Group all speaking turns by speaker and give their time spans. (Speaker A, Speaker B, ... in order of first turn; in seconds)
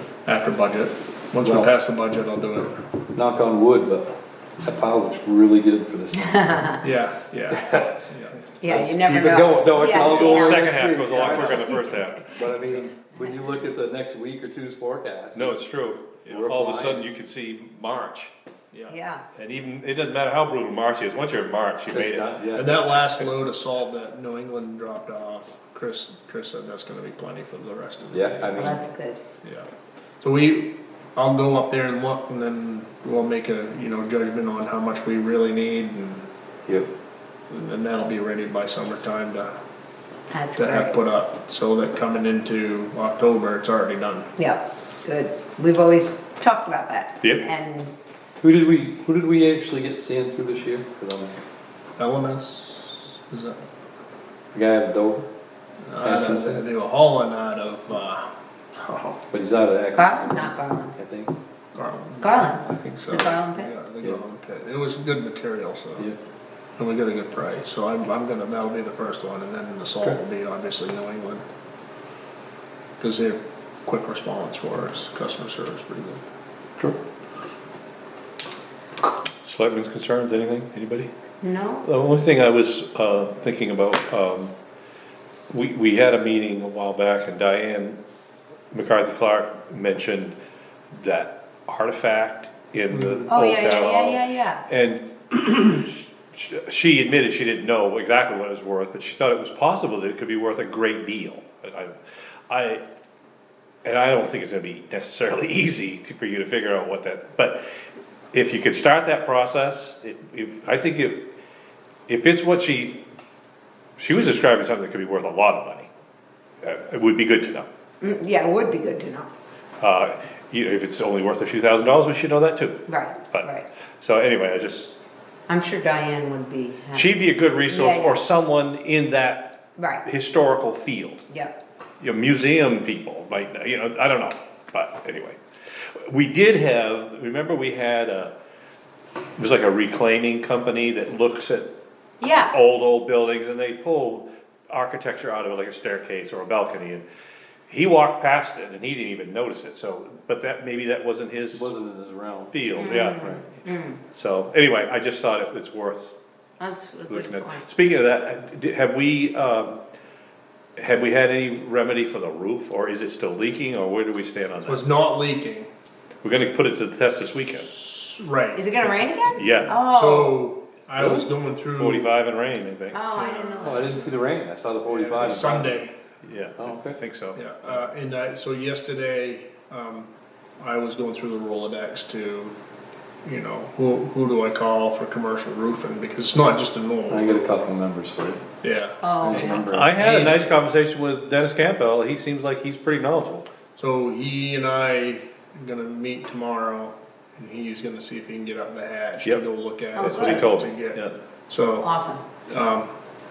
Speaker A: 0.2-2.8, 6.8-8.4, 18.7-19.0, 22.5-28.7, 29.4-29.7, 30.2-36.2, 37.5-39.5, 40.5-44.3, 52.0-53.6, 55.8-59.2, 61.7-66.1, 66.8-71.4, 73.0-76.2, 92.9-93.3, 164.6-165.7, 167.4-172.1, 174.9-175.9, 177.3-182.5, 183.2-187.5, 188.6-190.5, 193.8-201.9, 202.4-202.9
Speaker B: 1.4-1.7, 3.1-6.8, 7.5-8.0, 8.6-15.6, 16.2-17.0, 21.9-22.8, 28.1-28.8, 48.4-51.3, 54.5-55.3, 56.0-56.6, 59.3-61.3, 151.5-153.4, 173.6-175.8, 176.6-177.0, 187.1-188.4, 189.2-190.0
Speaker C: 6.2-6.8, 8.6-10.6, 11.3-11.9, 18.9-19.2, 28.6-29.2, 40.3-41.0, 44.4-47.9, 60.0-60.9, 62.2-63.7, 81.4-81.9, 93.3-94.6, 118.0-119.3, 122.9-123.7, 125.5-128.2, 129.8-130.0, 131.3-131.6, 142.2-142.5, 152.8-154.0, 156.6-157.6, 168.5-170.4, 172.9-174.0, 189.0-189.7, 199.9-200.4, 201.8-202.2
Speaker D: 10.0-12.3, 15.3-18.3, 19.3-22.4, 79.4-81.1, 81.8-84.5, 85.5-88.0, 88.7-90.3, 90.9-102.0, 102.5-102.8, 103.8-107.6, 108.3-111.2, 112.1-113.0, 114.0-115.9, 116.6-117.7, 119.8-125.0, 126.9-131.2, 132.0-135.4, 136.1-138.3, 139.4-141.7, 142.2-147.0, 147.7-151.7, 152.5-153.5, 154.1-156.1, 157.1-159.8, 160.8-164.8, 166.2-167.7, 169.3-169.8, 171.0-173.8, 176.2-177.8, 189.7-193.5, 200.0-201.2